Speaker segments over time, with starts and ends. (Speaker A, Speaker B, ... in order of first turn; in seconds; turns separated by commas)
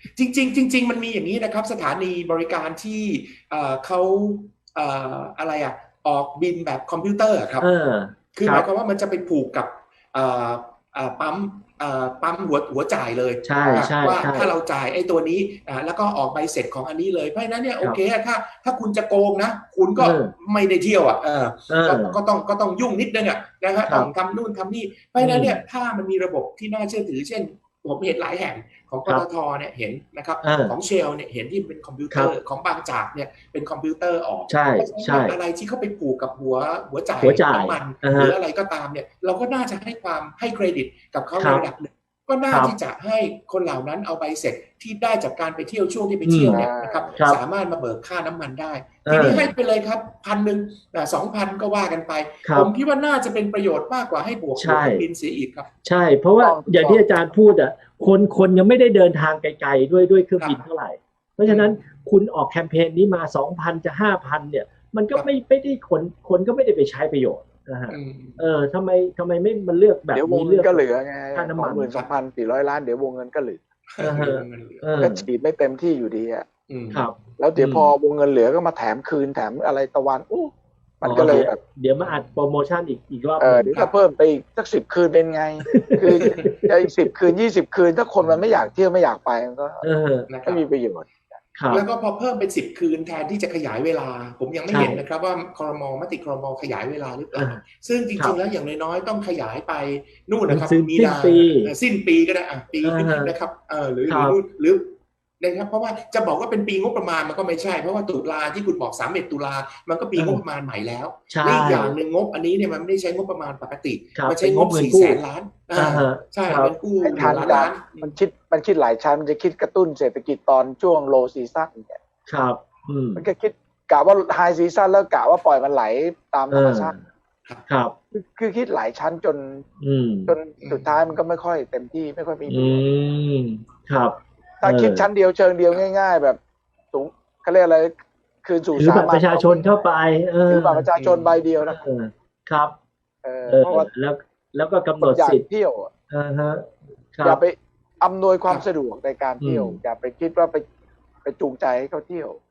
Speaker A: 0.2-7.7, Speaker B: 7.6-8.7, Speaker A: 8.3-55.7, Speaker B: 13.4-14.5, Speaker B: 20.0-20.3, Speaker B: 21.7-22.2, Speaker B: 25.2-25.6, Speaker B: 30.4-30.8, Speaker B: 34.5-35.4, Speaker B: 37.2-38.4, Speaker B: 41.4-41.7, Speaker B: 46.2-46.6, Speaker C: 46.4-47.2, Speaker B: 49.0-49.5, Speaker B: 52.4-52.7, Speaker B: 54.6-55.1, Speaker B: 55.9-70.8, Speaker C: 56.4-57.3, Speaker A: 61.4-61.8, Speaker A: 67.9-68.4, Speaker C: 70.1-73.6, Speaker B: 71.3-71.9, Speaker A: 73.9-74.8, Speaker B: 74.0-75.2, Speaker C: 75.0-76.5, Speaker A: 76.7-77.1, Speaker B: 76.9-77.9, Speaker C: 77.4-81.6, Speaker B: 81.0-83.7, Speaker A: 82.0-82.3, Speaker C: 83.4-89.8, Speaker B: 85.6-86.7, Speaker A: 86.2-86.5, Speaker A: 88.2-88.6, Speaker B: 89.8-90.3, Speaker A: 90.3-90.6, Speaker C: 90.5-91.4, Speaker B: 91.5-91.8, Speaker A: 91.7-118.2, Speaker B: 94.7-95.0, Speaker B: 97.3-97.6, Speaker B: 100.5-101.7, Speaker B: 102.8-103.3, Speaker B: 104.1-104.4, Speaker B: 110.2-110.4, Speaker B: 111.3-112.0, Speaker B: 114.1-115.2, Speaker B: 115.8-117.5, Speaker C: 117.0-122.0, Speaker B: 122.3-123.3, Speaker C: 123.2-127.0, Speaker B: 126.5-127.0, Speaker B: 127.7-128.0, Speaker C: 128.1-129.6, Speaker B: 129.8-130.4, Speaker C: 130.3-132.8, Speaker A: 130.6-130.9, Speaker B: 132.5-135.1, Speaker C: 134.6-136.4, Speaker C: 136.9-139.9, Speaker B: 138.7-140.9, Speaker C: 140.5-141.8, Speaker A: 140.9-141.4, Speaker B: 141.6-142.8, Speaker C: 143.2-143.9, Speaker B: 143.5-145.4, Speaker C: 145.0-145.9, Speaker B: 146.1-147.4, Speaker C: 147.2-150.6, Speaker B: 149.4-149.8, Speaker C: 151.2-152.4